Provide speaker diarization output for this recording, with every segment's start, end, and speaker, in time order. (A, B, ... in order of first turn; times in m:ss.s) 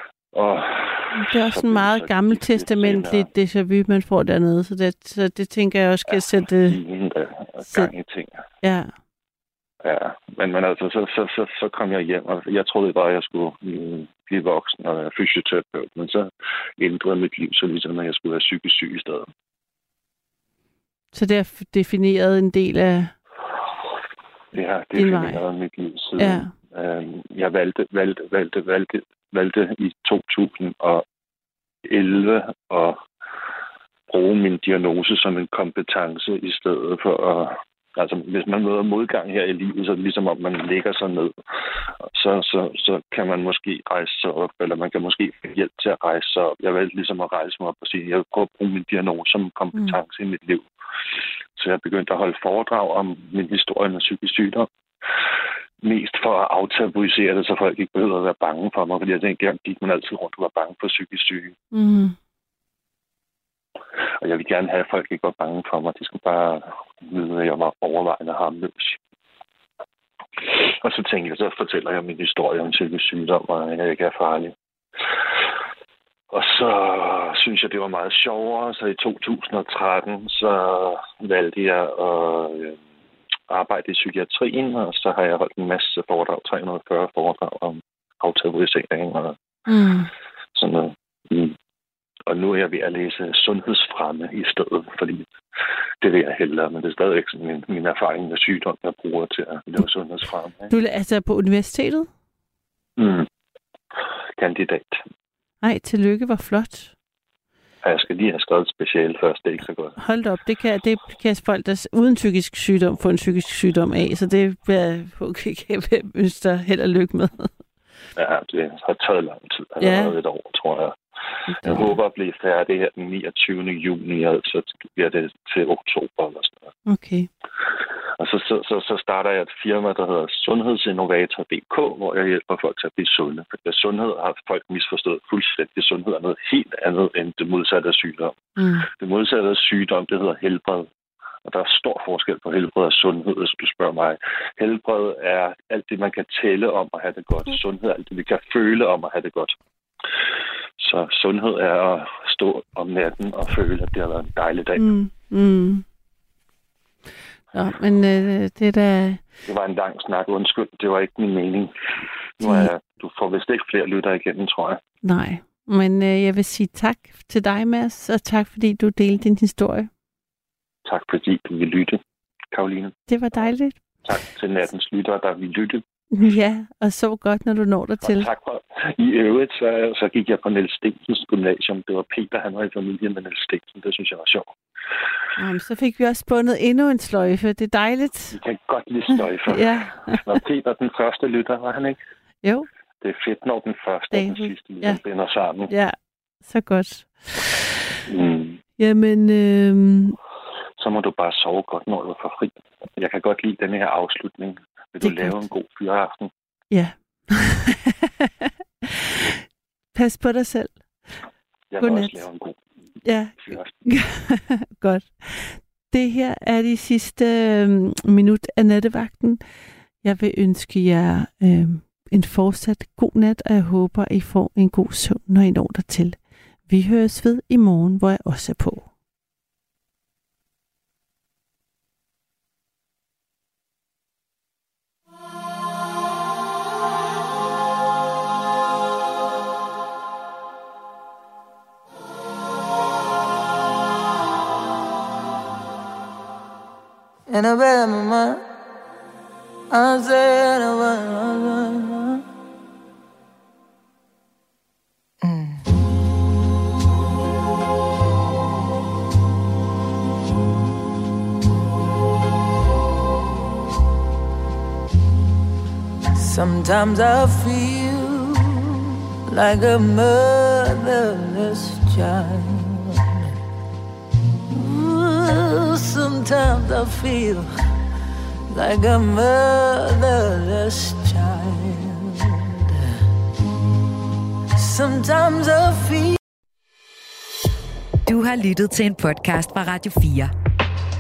0:00.3-0:03.3 A
0:01.1-0:06.8 B
0:06.1-0:08.3 A
0:07.6-0:07.9 B
0:08.6-0:08.9 B
0:09.8-0:19.3 A
0:21.1-0:23.2 B
0:24.5-0:31.0 A
0:25.0-0:25.4 B
0:26.2-0:26.5 B
0:31.8-0:33.0 A
0:34.1-0:41.3 A
0:42.0-0:50.7 A
0:51.6-0:54.7 A
0:55.8-1:01.6 A
1:01.7-1:02.2 B
1:04.2-1:09.0 A
1:10.5-1:14.5 A
1:16.3-1:22.8 A
1:23.5-1:29.4 A
1:29.7-1:30.1 B
1:30.5-1:31.6 A
1:32.3-1:35.3 A
1:36.0-1:40.7 A
1:40.7-1:42.1 B
1:43.0-1:43.3 A
1:44.4-1:45.0 A
1:45.6-1:46.9 B
1:47.8-1:50.0 A
1:50.0-1:57.5 B
1:58.2-2:01.0 A
1:59.8-2:00.2 B
2:01.5-2:01.9 B
2:01.6-2:06.7 A
2:06.9-2:07.3 B
2:08.2-2:20.9 A
2:18.6-2:18.9 B
2:21.5-2:29.6 A
2:30.8-2:34.9 A
2:34.8-2:35.8 B
2:37.5-2:39.2 B
2:39.5-2:41.7 A
2:42.4-2:44.8 A
2:42.4-2:42.7 B
2:45.0-2:49.9 B
2:50.9-2:52.0 A
2:52.5-2:53.0 A
2:53.1-2:53.8 B
2:54.0-2:55.8 A
2:56.1-2:58.3 B
2:58.0-3:04.5 A
3:05.4-3:08.4 B
3:08.3-3:12.0 A
3:09.5-3:10.2 B
3:13.0-3:15.7 A
3:14.1-3:15.0 B
3:15.7-3:17.1 B
3:18.1-3:18.6 A
3:18.8-3:20.2 B
3:20.8-3:26.3 A
3:25.0-3:25.4 B
3:26.7-3:29.4 B
3:29.9-3:30.8 B
3:31.7-3:32.6 A
3:31.8-3:32.2 B
3:33.0-3:39.4 B
3:33.4-3:33.7 A
3:40.0-3:48.9 B
4:07.3-4:08.4 C
4:09.7-4:12.2 C
4:15.2-4:15.6 C
4:26.2-4:33.0 C
4:34.5-4:37.5 C
4:38.5-4:42.8 C
4:44.6-4:46.2 C
4:48.1-4:50.3 D